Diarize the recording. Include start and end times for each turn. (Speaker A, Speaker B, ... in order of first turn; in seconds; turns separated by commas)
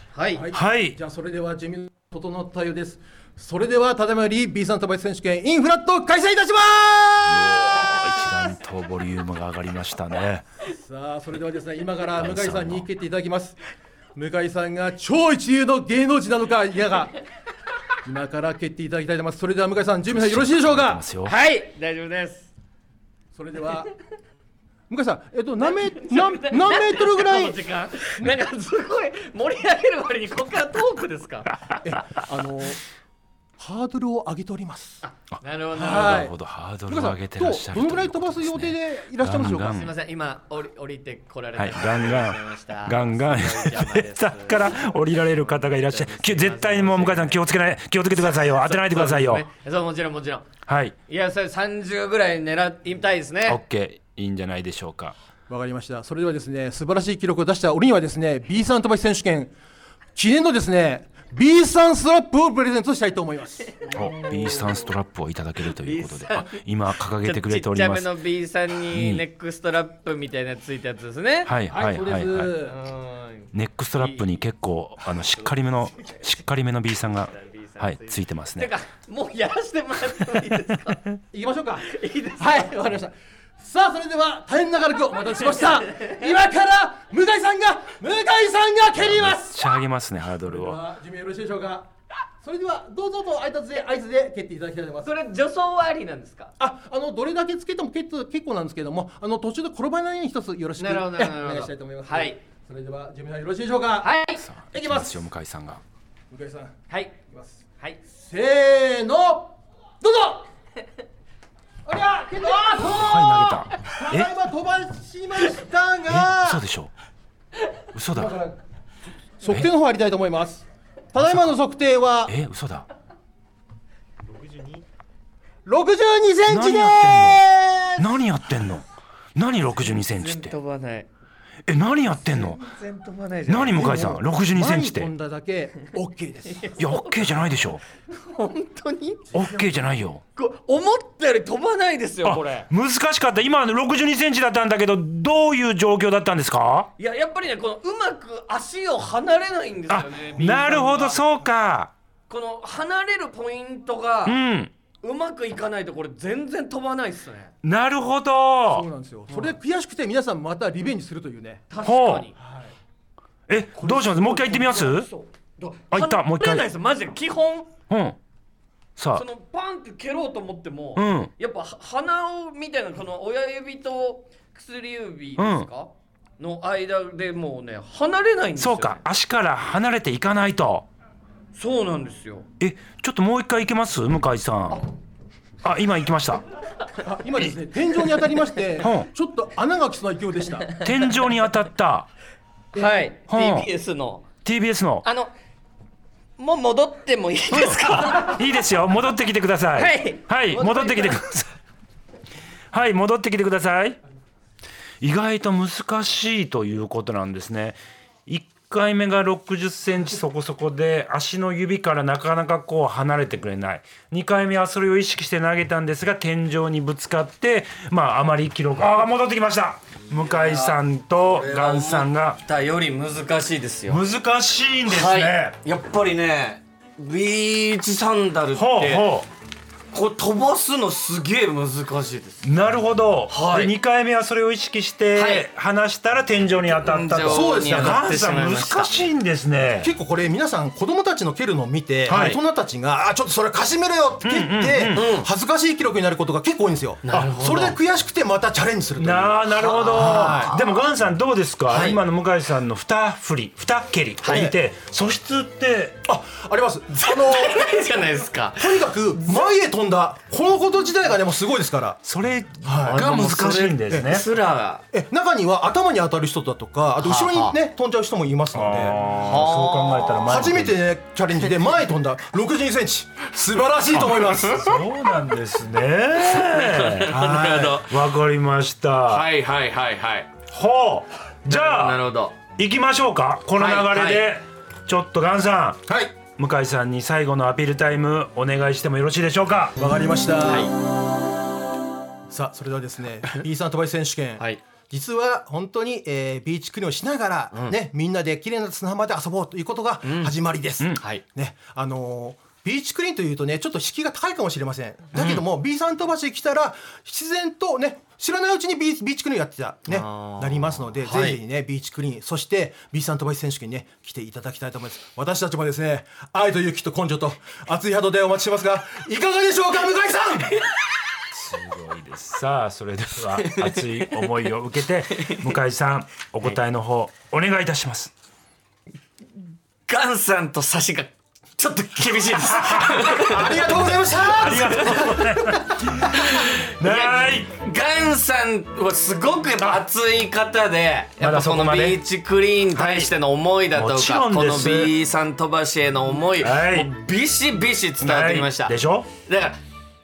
Speaker A: 0.1-0.4, Speaker B: 0.3-7.8, Speaker C: 0.5-1.0, Speaker C: 7.3-10.4, Speaker B: 10.7-13.6, Speaker C: 12.2-12.9, Speaker B: 14.2-17.1, Speaker B: 18.0-21.0, Speaker C: 20.1-21.4, Speaker A: 21.3-22.5, Speaker B: 23.3-23.9, Speaker B: 24.9-27.6, Speaker A: 26.1-31.5, Speaker B: 31.8-32.8, Speaker B: 33.6-35.0, Speaker A: 35.0-36.3, Speaker B: 35.8-36.3, Speaker C: 35.9-39.9, Speaker B: 36.9-39.8, Speaker A: 39.7-44.9, Speaker C: 41.6-49.5, Speaker A: 45.8-47.4, Speaker A: 48.3-50.5, Speaker C: 50.7-51.0, Speaker A: 51.1-53.6, Speaker C: 53.5-55.1, Speaker B: 55.5-59.5, Speaker B: 60.2-64.1, Speaker A: 63.8-64.6, Speaker C: 63.9-68.1, Speaker A: 65.8-66.6, Speaker A: 67.2-71.5, Speaker C: 68.9-69.2, Speaker C: 71.5-72.5, Speaker B: 71.7-72.8, Speaker A: 72.7-74.2, Speaker C: 73.5-78.7, Speaker A: 77.3-81.0, Speaker B: 81.3-89.7, Speaker A: 81.8-82.8, Speaker A: 85.8-86.2, Speaker C: 89.0-90.8, Speaker B: 90.5-91.9, Speaker B: 92.4-95.1, Speaker A: 95.0-96.5, Speaker B: 96.6-104.1, Speaker A: 100.8-102.4, Speaker A: 104.0-104.4, Speaker C: 104.4-105.8, Speaker B: 104.7-105.2, Speaker B: 106.3-106.8, Speaker B: 107.3-107.6, Speaker B: 108.2-110.5, Speaker B: 111.8-116.6, Speaker C: 112.8-114.3, Speaker C: 116.1-116.9, Speaker C: 117.9-118.3, Speaker B: 118.1-118.6, Speaker B: 119.4-122.3, Speaker C: 121.2-121.5, Speaker C: 122.3-122.9, Speaker B: 125.7-128.2, Speaker C: 126.5-127.4, Speaker C: 128.0-128.8, Speaker C: 129.4-130.5, Speaker A: 130.1-131.1, Speaker C: 131.7-132.6, Speaker A: 132.3-133.9, Speaker C: 133.5-135.1, Speaker B: 133.7-136.8, Speaker A: 136.6-137.1, Speaker C: 136.8-137.8, Speaker A: 138.1-139.6, Speaker C: 139.3-140.2, Speaker A: 140.4-142.7, Speaker C: 142.2-146.9, Speaker A: 147.0-151.2, Speaker C: 149.9-151.9, Speaker A: 152.3-154.4, Speaker C: 154.3-154.7, Speaker A: 155.0-157.5, Speaker C: 157.6-158.9, Speaker B: 158.7-161.7, Speaker A: 161.7-162.4, Speaker C: 161.8-162.3, Speaker B: 162.4-162.7, Speaker C: 163.5-165.1, Speaker A: 163.8-167.7, Speaker C: 165.9-166.7, Speaker C: 167.9-168.2, Speaker C: 169.0-169.2, Speaker A: 169.2-179.0, Speaker C: 171.0-171.3, Speaker C: 175.4-175.7, Speaker C: 178.6-180.9, Speaker A: 181.6-182.5, Speaker C: 182.6-184.8, Speaker C: 185.6-186.4, Speaker B: 186.9-190.8, Speaker C: 188.8-189.1, Speaker C: 190.8-192.1, Speaker A: 192.8-194.3, Speaker C: 193.3-193.7, Speaker C: 194.4-195.0, Speaker A: 195.0-195.3, Speaker A: 196.4-198.4, Speaker C: 197.6-201.5, Speaker A: 199.8-201.2, Speaker C: 202.7-204.0, Speaker C: 205.0-222.4, Speaker A: 220.1-224.0, Speaker C: 223.9-225.6, Speaker A: 224.9-229.1, Speaker C: 228.5-229.3, Speaker A: 229.9-232.5, Speaker C: 232.4-239.9, Speaker A: 233.3-233.7, Speaker A: 235.2-235.5, Speaker A: 236.8-238.9, Speaker B: 237.3-238.1, Speaker B: 239.8-250.6, Speaker A: 242.1-242.4, Speaker C: 242.1-242.4, Speaker C: 244.2-245.1, Speaker A: 244.9-245.3, Speaker A: 247.0-247.8, Speaker C: 249.0-256.0, Speaker A: 249.6-250.8, Speaker A: 251.7-252.0, Speaker A: 254.2-254.5, Speaker B: 254.3-254.6, Speaker B: 256.1-257.8, Speaker A: 257.0-259.5, Speaker B: 258.6-262.0, Speaker C: 262.1-264.3, Speaker B: 262.6-263.0, Speaker A: 262.8-264.9, Speaker B: 263.9-264.2, Speaker B: 264.9-269.0, Speaker A: 267.0-267.6, Speaker C: 268.5-270.8, Speaker A: 269.2-270.3, Speaker B: 270.2-274.8, Speaker C: 273.9-279.3, Speaker A: 276.3-278.0, Speaker B: 277.1-277.8, Speaker A: 279.1-280.3, Speaker C: 280.5-282.0, Speaker A: 281.5-282.4, Speaker C: 282.6-289.8, Speaker A: 283.6-284.3, Speaker B: 285.9-286.1, Speaker B: 289.8-290.7, Speaker A: 290.5-290.7, Speaker B: 292.3-320.7, Speaker A: 300.0-300.3, Speaker A: 309.9-311.4, Speaker C: 321.3-328.1, Speaker A: 323.4-324.2, Speaker A: 329.9-333.7, Speaker C: 332.6-337.5, Speaker B: 333.2-335.3, Speaker A: 334.6-335.2, Speaker A: 336.0-348.7, Speaker C: 341.2-342.0, Speaker C: 342.7-343.1, Speaker C: 343.7-344.9, Speaker C: 346.3-346.9, Speaker C: 348.0-349.1, Speaker A: 349.2-349.6